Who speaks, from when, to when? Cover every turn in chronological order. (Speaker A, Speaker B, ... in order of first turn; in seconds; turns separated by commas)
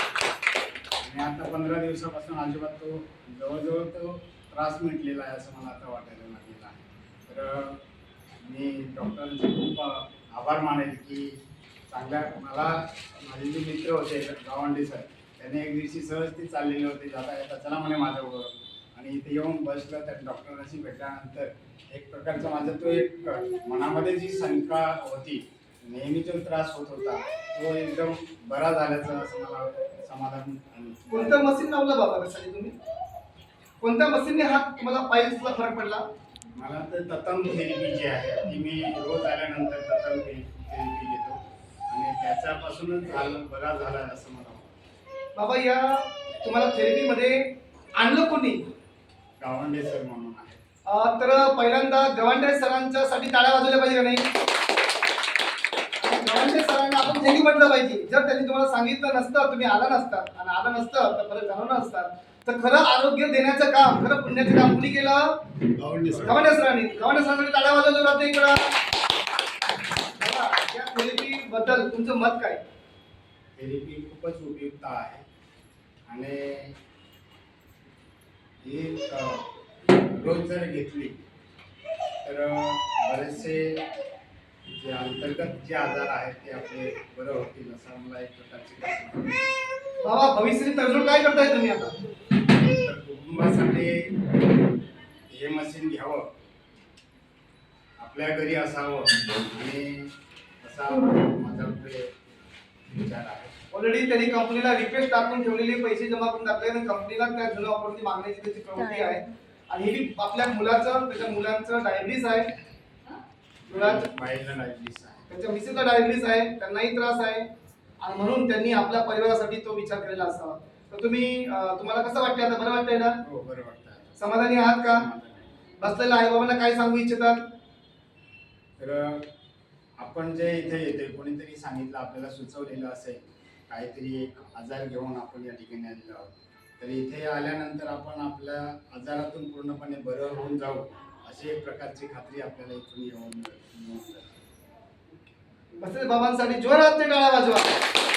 Speaker A: 1.0-7.8, Speaker A: 8.4-31.5, Speaker B: 31.1-32.8, Speaker B: 33.8-36.0, Speaker A: 36.5-44.8, Speaker B: 45.4-48.6, Speaker A: 49.4-50.6, Speaker B: 50.9-54.3, Speaker B: 56.0-65.4, Speaker A: 65.8-66.4, Speaker B: 66.1-68.8, Speaker B: 70.2-72.6, Speaker A: 73.6-75.2, Speaker A: 76.1-76.8, Speaker A: 78.6-81.2, Speaker A: 82.2-83.8, Speaker A: 84.8-89.6, Speaker B: 90.0-92.0, Speaker A: 92.4-94.4, Speaker A: 95.3-96.3, Speaker A: 98.0-102.1, Speaker A: 102.9-103.5, Speaker B: 103.7-112.5, Speaker A: 113.7-115.3, Speaker B: 113.7-114.1, Speaker B: 115.3-117.5, Speaker B: 118.0-123.2, Speaker A: 123.2-125.6, Speaker B: 124.2-125.0, Speaker B: 125.8-127.4, Speaker A: 128.8-129.3, Speaker A: 130.0-144.3, Speaker B: 145.8-147.8